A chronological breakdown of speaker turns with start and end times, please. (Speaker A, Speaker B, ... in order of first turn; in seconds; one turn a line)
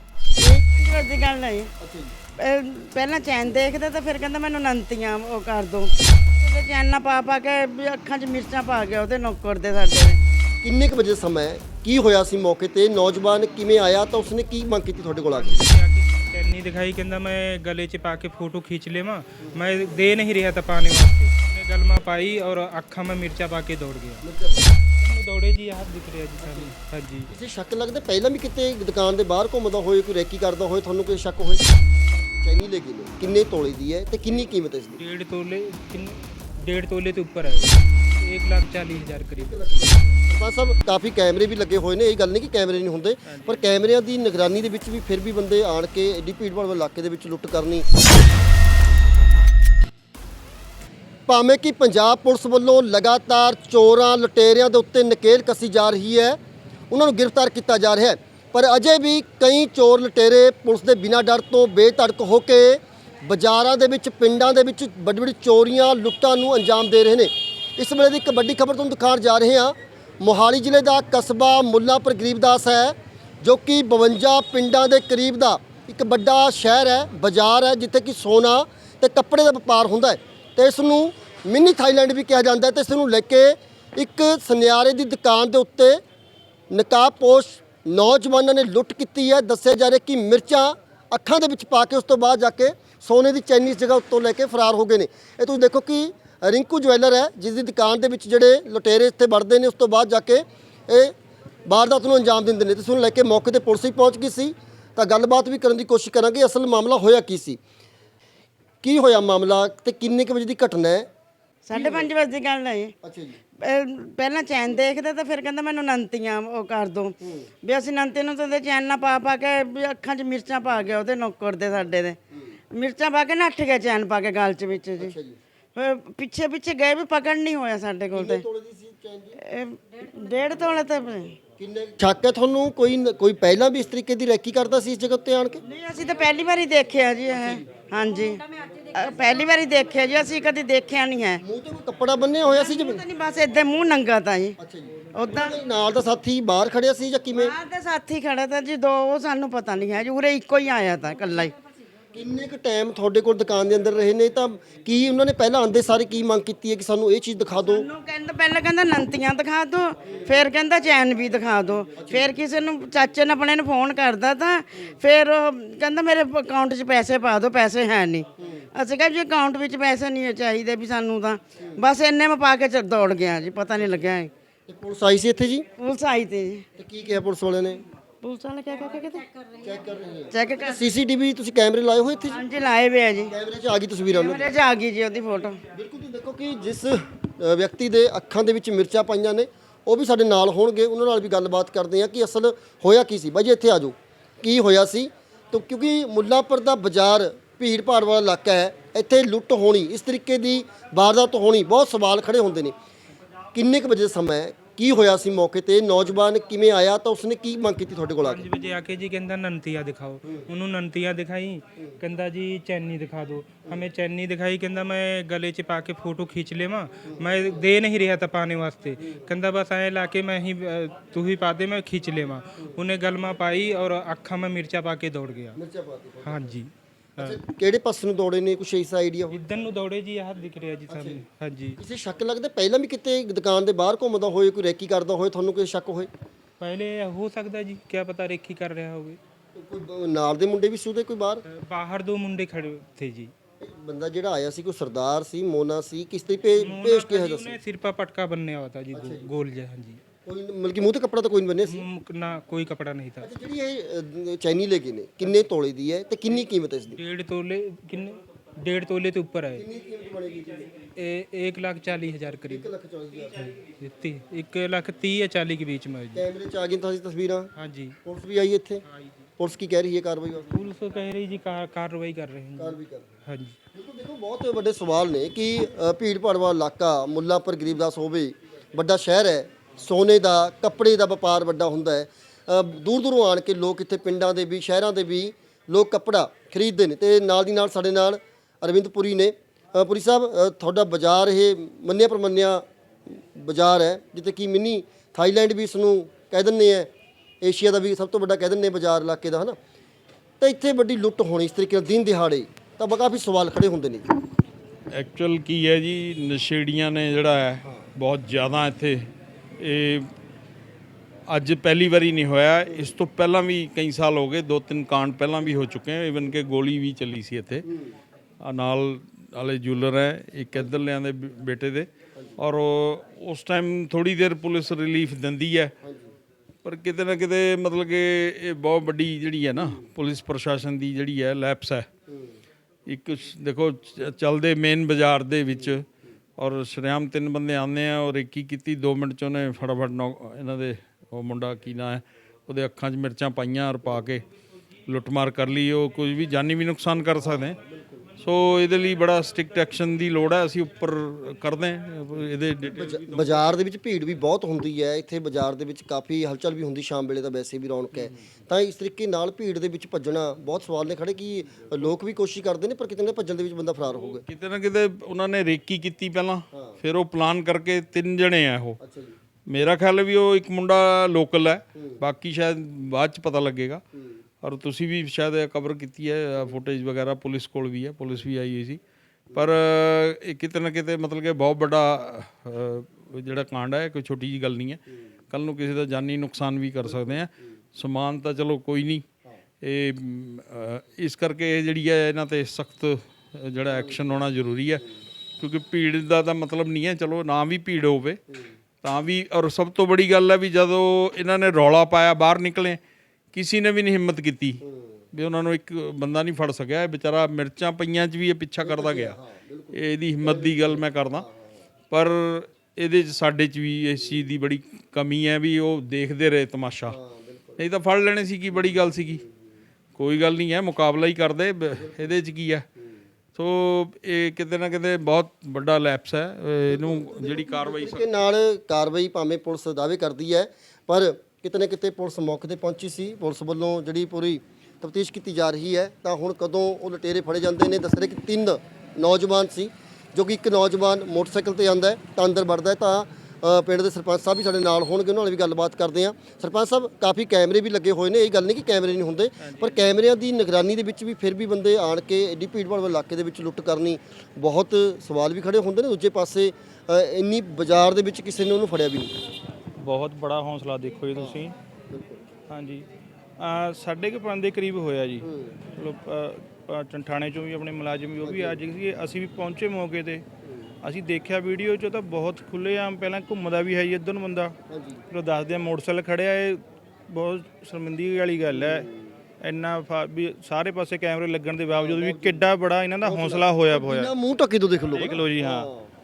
Speaker A: 0.4-0.7
Speaker B: 0.7-1.7
Speaker A: 1.8-2.2
Speaker B: 2.4-10.2
Speaker A: 10.6-15.6
Speaker C: 15.3-24.2
Speaker A: 19.4-19.8
Speaker A: 24.2-24.7
Speaker C: 25.0-27.3
Speaker A: 26.4-26.7
Speaker A: 27.3-31.6
Speaker A: 32.4-35.0
Speaker C: 35.0-39.6
Speaker A: 39.4-47.9
Speaker D: 43.3-43.6
Speaker A: 51.3-56.4
Speaker A: 56.9-86.0
Speaker A: 86.7-101.1
Speaker A: 101.7-107.6
Speaker A: 108.8-111.1
Speaker B: 111.7-113.0
Speaker A: 111.7-112.1
Speaker A: 113.0-113.4
Speaker B: 113.6-122.2
Speaker A: 117.2-117.5
Speaker B: 122.7-125.1
Speaker A: 125.0-125.4
Speaker B: 125.8-128.4
Speaker A: 128.1-129.4
Speaker B: 129.4-131.4
Speaker A: 131.6-135.6
Speaker B: 135.7-141.4
Speaker A: 137.3-137.6
Speaker A: 141.4-143.1
Speaker B: 142.4-144.6
Speaker A: 144.6-147.6
Speaker B: 145.2-145.6
Speaker B: 147.4-151.6
Speaker A: 152.1-157.9
Speaker B: 157.6-174.3
Speaker A: 160.1-160.3
Speaker A: 161.9-162.3
Speaker A: 168.4-168.7
Speaker A: 171.6-171.8
Speaker A: 174.7-175.7
Speaker B: 175.8-176.7
Speaker A: 176.8-177.8
Speaker B: 178.2-179.3
Speaker A: 179.6-182.4
Speaker B: 180.3-180.9
Speaker B: 182.3-183.3
Speaker A: 183.3-184.6
Speaker B: 184.1-185.6
Speaker A: 185.7-202.7
Speaker A: 203.5-208.5
Speaker C: 208.2-225.6
Speaker A: 217.1-217.6
Speaker A: 225.6-226.5
Speaker C: 226.2-227.4
Speaker A: 227.2-229.4
Speaker C: 229.3-231.8
Speaker A: 230.9-231.2
Speaker A: 231.8-236.1
Speaker C: 236.6-239.2
Speaker A: 239.6-241.4
Speaker C: 241.5-243.3
Speaker A: 243.6-247.6
Speaker C: 246.6-250.0
Speaker A: 248.9-249.3
Speaker A: 250.2-251.9
Speaker C: 251.7-253.3
Speaker A: 253.2-257.0
Speaker C: 257.0-259.6
Speaker A: 259.5-260.7
Speaker C: 260.9-262.7
Speaker A: 262.3-263.6
Speaker C: 263.7-266.3
Speaker A: 266.1-267.5
Speaker C: 267.6-268.0
Speaker A: 268.1-268.8
Speaker A: 269.4-270.5
Speaker C: 270.5-273.6
Speaker A: 272.6-273.1
Speaker A: 273.7-296.9
Speaker A: 297.4-299.6
Speaker A: 300.4-304.1
Speaker E: 304.9-310.1
Speaker E: 311.3-317.6
Speaker A: 317.6-318.0
Speaker E: 318.4-325.8
Speaker A: 325.8-326.1
Speaker E: 326.6-331.9
Speaker A: 329.6-329.8
Speaker A: 332.1-332.4
Speaker E: 332.9-335.9
Speaker E: 336.4-344.2
Speaker E: 344.9-347.6
Speaker A: 347.2-348.1
Speaker E: 348.2-353.6
Speaker A: 352.8-364.2
Speaker E: 364.0-368.8
Speaker A: 366.5-366.8
Speaker A: 368.8-369.1
Speaker E: 369.5-373.8
Speaker A: 371.8-372.0
Speaker A: 373.9-374.2
Speaker E: 374.4-378.8
Speaker E: 379.3-389.0
Speaker A: 386.9-387.3
Speaker E: 389.6-394.8
Speaker A: 393.7-394.0
Speaker E: 395.4-398.2
Speaker E: 398.8-402.8
Speaker E: 403.3-404.6
Speaker A: 404.6-405.1
Speaker E: 405.1-409.2
Speaker A: 408.6-411.7
Speaker E: 409.7-411.3
Speaker E: 411.9-417.0
Speaker A: 416.9-417.6
Speaker E: 417.6-419.2
Speaker A: 418.6-419.4
Speaker E: 419.9-422.6
Speaker A: 421.7-422.2
Speaker E: 423.4-428.1
Speaker A: 426.7-459.1
Speaker D: 449.4-449.8
Speaker D: 459.8-461.6
Speaker A: 461.1-462.3
Speaker D: 462.5-462.9
Speaker D: 463.4-470.2
Speaker A: 465.2-465.6
Speaker A: 468.2-468.6
Speaker A: 470.4-470.7
Speaker D: 470.8-474.6
Speaker A: 474.7-475.0
Speaker D: 475.1-478.9
Speaker A: 478.5-479.2
Speaker D: 479.4-484.1
Speaker A: 481.7-485.9
Speaker D: 484.9-485.7